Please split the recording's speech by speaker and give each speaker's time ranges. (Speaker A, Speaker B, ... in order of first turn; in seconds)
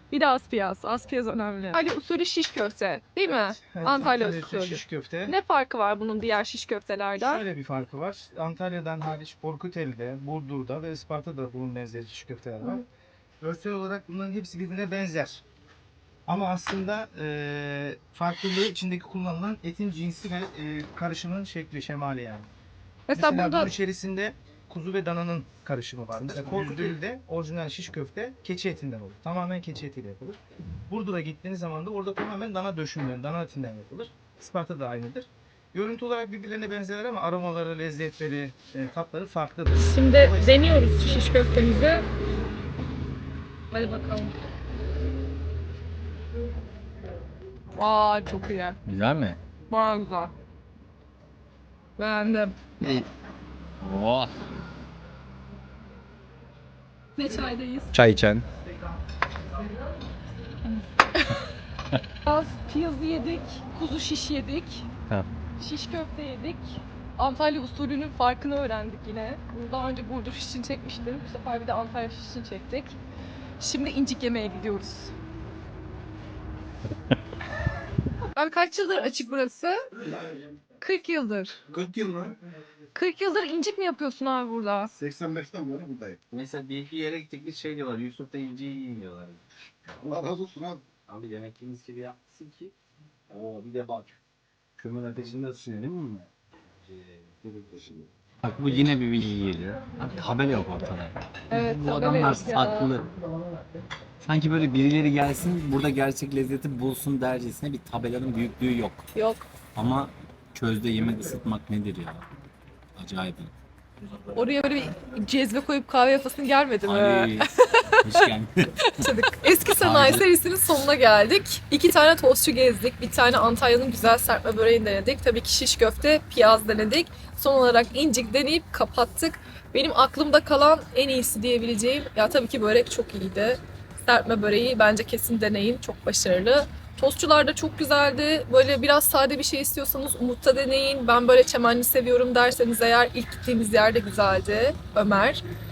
Speaker A: 0.1-7.4, 23.1-23.7, 39.7-42.0, 43.7-44.3, 47.8-48.8, 49.7-50.3, 52.0-52.6, 57.1-57.9, 60.6-61.4, 62.2-64.9, 65.6-73.0, 73.6-75.1, 78.3-79.8, 80.8-81.6, 82.9-84.9, 101.5-102.9, 109.1-109.4, 114.3-118.3, 118.9-145.4
Speaker B: 3.6-5.4, 7.2-12.8, 13.4-15.4, 16.3-22.5, 23.1-30.4, 30.9-40.6
Speaker C: 48.8-49.4, 52.8-53.1, 53.8-54.3, 57.9-58.5, 81.7-82.2, 86.2-89.4, 90.0-92.7, 93.3-94.1, 94.8-96.2, 96.9-103.1, 104.2-109.0, 109.7-112.2, 113.0-113.5, 116.8-117.5, 118.0-119.1, 119.8-120.2